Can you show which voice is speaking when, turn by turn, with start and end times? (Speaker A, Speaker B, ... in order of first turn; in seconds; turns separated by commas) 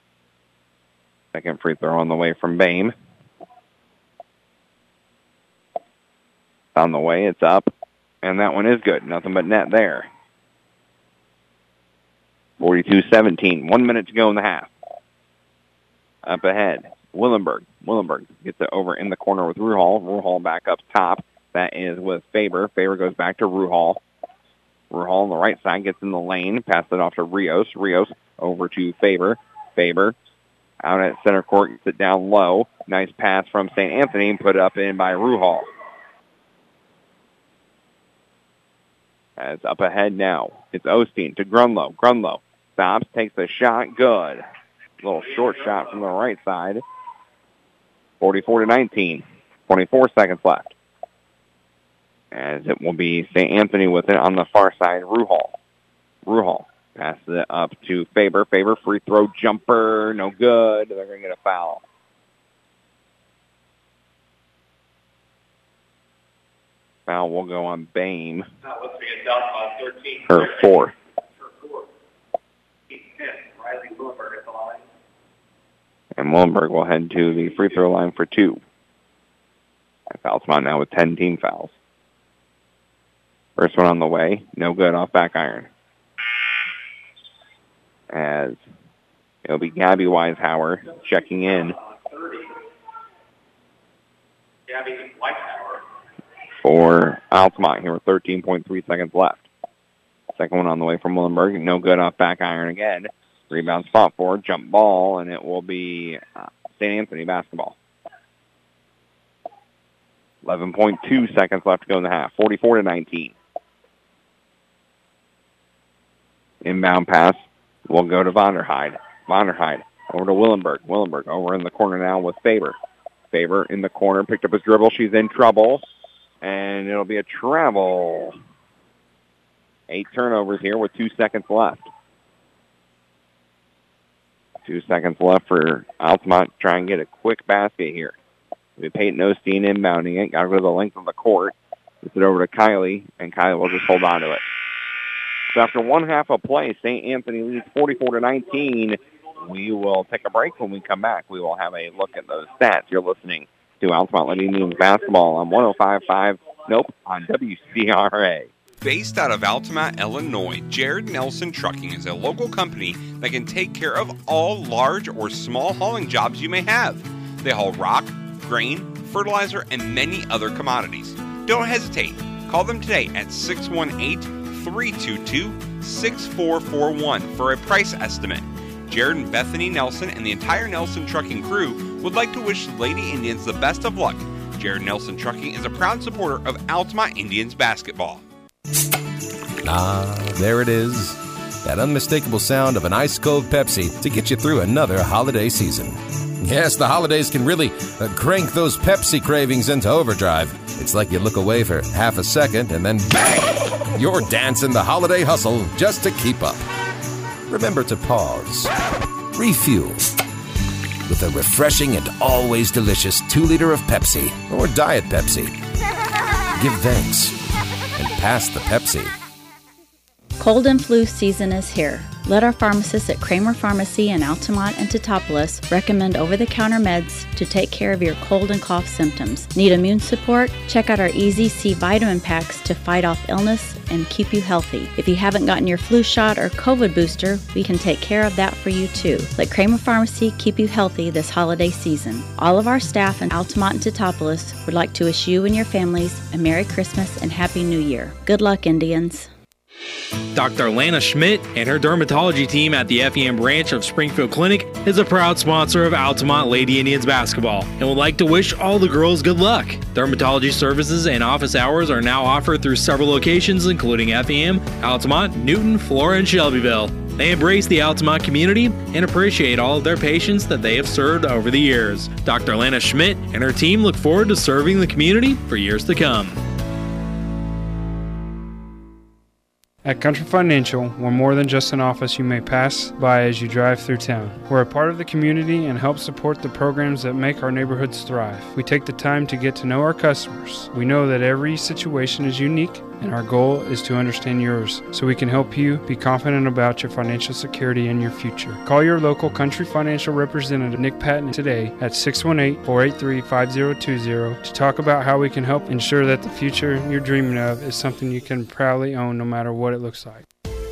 Speaker A: 1.3-2.9, Speaker A: 6.8-7.7, Speaker A: 8.2-10.1, Speaker A: 12.6-14.7, Speaker A: 16.2-24.0, Speaker A: 24.9-30.2, Speaker A: 30.8-35.7, Speaker A: 39.4-44.4, Speaker A: 45.0-46.8, Speaker A: 48.2-50.8, Speaker A: 52.3-55.6, Speaker A: 56.2-61.8, Speaker A: 67.1-68.5, Speaker B: 68.6-71.9, Speaker A: 70.3-70.9, Speaker B: 72.9-74.8, Speaker A: 76.2-78.6, Speaker B: 77.4-77.7, Speaker A: 80.1-81.7, Speaker A: 83.6-85.7, Speaker A: 88.1-88.6, Speaker A: 89.5-91.8, Speaker B: 90.9-92.6, Speaker B: 94.7-95.8, Speaker A: 96.6-99.5, Speaker A: 100.4-107.8, Speaker A: 110.4-113.4, Speaker A: 116.6-122.8, Speaker A: 123.3-125.8, Speaker A: 126.4-128.4, Speaker A: 129.9-131.9, Speaker A: 134.7-138.2, Speaker A: 138.8-144.4, Speaker A: 145.5-158.5, Speaker B: 148.0-150.9, Speaker B: 152.0-152.8, Speaker B: 154.2-156.7, Speaker C: 158.8-188.2, Speaker D: 189.6-206.6, Speaker D: 207.5-208.7, Speaker D: 209.3-210.1, Speaker D: 211.1-215.6, Speaker D: 216.5-217.4, Speaker D: 218.0-219.1, Speaker E: 220.4-249.3, Speaker F: 250.3-276.4, Speaker G: 279.8-310.3